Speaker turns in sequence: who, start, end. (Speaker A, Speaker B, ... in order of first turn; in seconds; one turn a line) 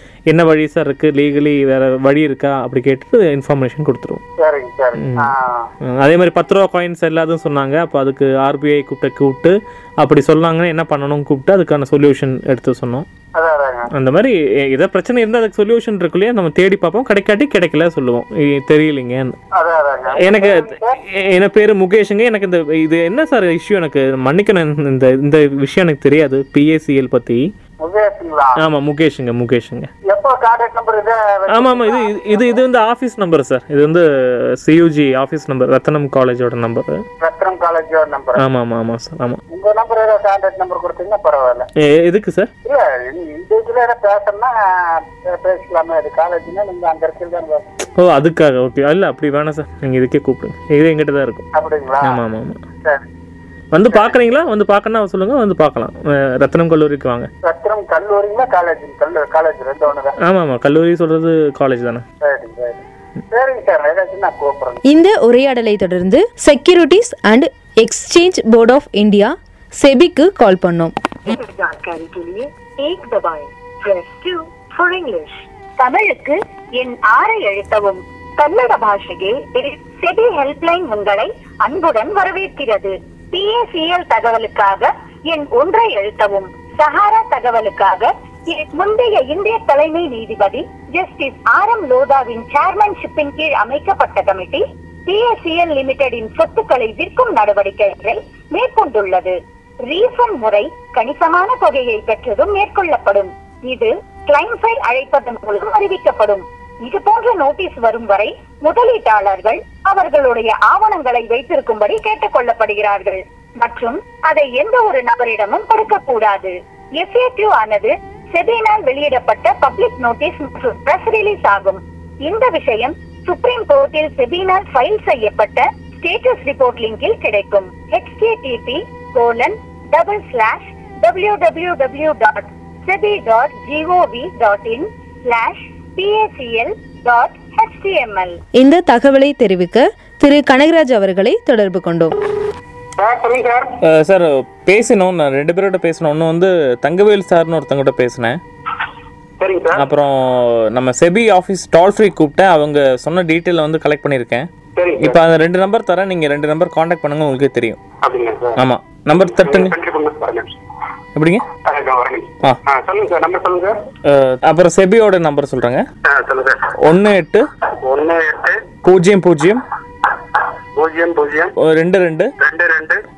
Speaker A: 0.3-4.2
Speaker B: 4.4-5.7
Speaker A: 4.9-5.3
Speaker A: 5.8-13.1
Speaker B: 13.3-13.9
Speaker A: 13.9-19.4
Speaker B: 19.5-21.0
Speaker A: 20.2-27.4
Speaker B: 27.8-28.6
Speaker A: 28.6-29.9
Speaker B: 30.1-32.6
Speaker A: 31.5-37.0
Speaker B: 37.2-38.4
Speaker A: 38.4-39.4
Speaker B: 39.5-41.7
Speaker A: 41.8-42.5
Speaker B: 42.6-47.7
Speaker A: 48.0-51.5
Speaker B: 51.5-52.1
Speaker A: 52.0-52.6
Speaker A: 53.7-57.3
Speaker B: 57.4-60.1
Speaker A: 60.2-62.0
Speaker B: 62.2-64.8
Speaker C: 64.9-70.9
Speaker D: 71.2-99.3
Speaker D: 99.9-138.4
Speaker C: 138.6-142.2
Speaker E: 143.0-143.7
Speaker A: 143.8-148.4
Speaker E: 149.4-149.9
Speaker A: 149.7-157.8
Speaker E: 154.8-155.2
Speaker E: 158.0-158.6
Speaker A: 158.6-159.7
Speaker E: 159.2-160.5
Speaker A: 161.1-161.5
Speaker E: 161.6-163.8
Speaker A: 164.0-165.8
Speaker E: 166.0-166.7
Speaker A: 166.8-167.4
Speaker E: 167.8-168.6
Speaker A: 168.8-169.6
Speaker E: 170.2-171.5
Speaker A: 171.6-172.3
Speaker E: 172.4-173.0